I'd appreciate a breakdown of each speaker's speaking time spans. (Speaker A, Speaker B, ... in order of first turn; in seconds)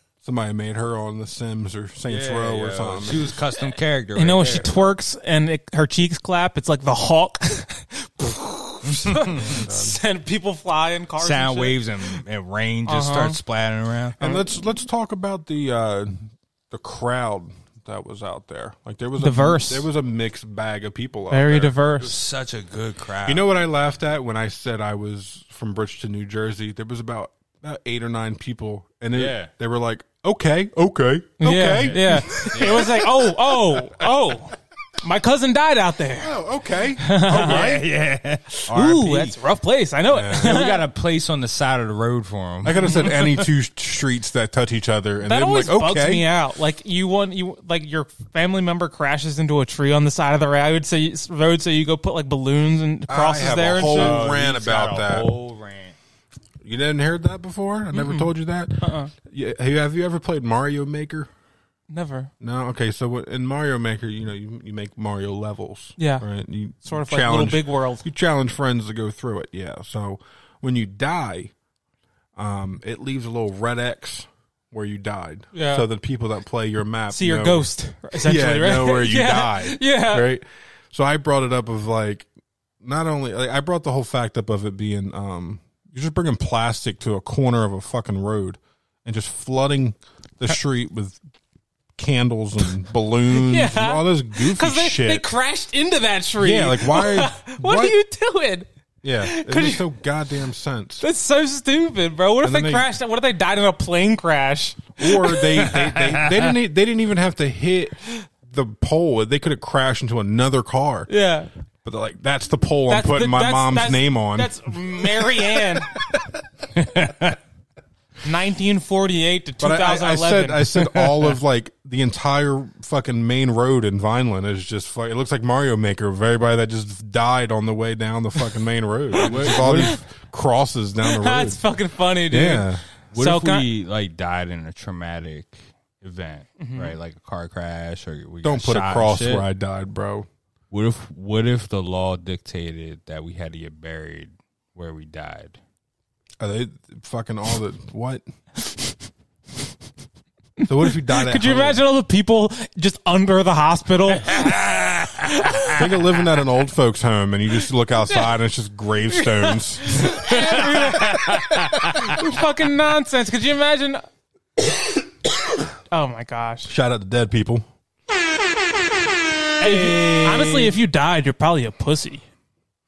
Speaker A: 0.2-3.4, 9.3-10.0, 14.2-21.8, 23.3-33.0, 36.2-37.9, 40.1-40.6, 42.6-46.3, 53.1-55.3, 56.6-61.3, 62.4-71.5, 72.4-82.3, 82.8-91.2, 92.0-95.3, 96.4-98.0, 99.0-101.0, 102.4-102.9, 105.0-111.1, 111.8-116.4, 119.6-131.6, 132.3-132.8, 138.4-140.3, 146.4-148.2, 150.7-151.8, 155.8-160.1, 166.7-167.7
Speaker B: 2.1-4.7, 8.9-9.4, 11.2-14.3, 22.0-23.5, 29.1-29.5, 31.9-33.0, 37.3-39.4, 40.4-43.3, 53.8-56.0, 116.8-117.4, 120.9-121.3, 129.2-130.0, 133.1-139.4, 140.7-145.6, 154.2-155.7, 160.3-161.9, 169.6-170.7
Speaker C: 4.2-12.1, 12.9-13.4, 19.2-19.9, 21.3-22.2, 31.4-36.4, 37.0-37.8, 38.7-40.8, 42.9-43.1, 45.2-54.2, 57.9-59.1, 61.9-62.3, 66.0-66.2, 66.8-68.1, 75.5-75.9, 77.1-80.3, 93.3-98.7, 99.2-99.9, 101.0-105.7, 111.1-111.5, 112.9-115.9, 118.2-120.7, 129.3-130.0, 131.0-133.7, 136.6-136.9, 150.6-154.4, 155.4-155.8, 159.1-164.0, 165.9-166.7, 169.6-172.2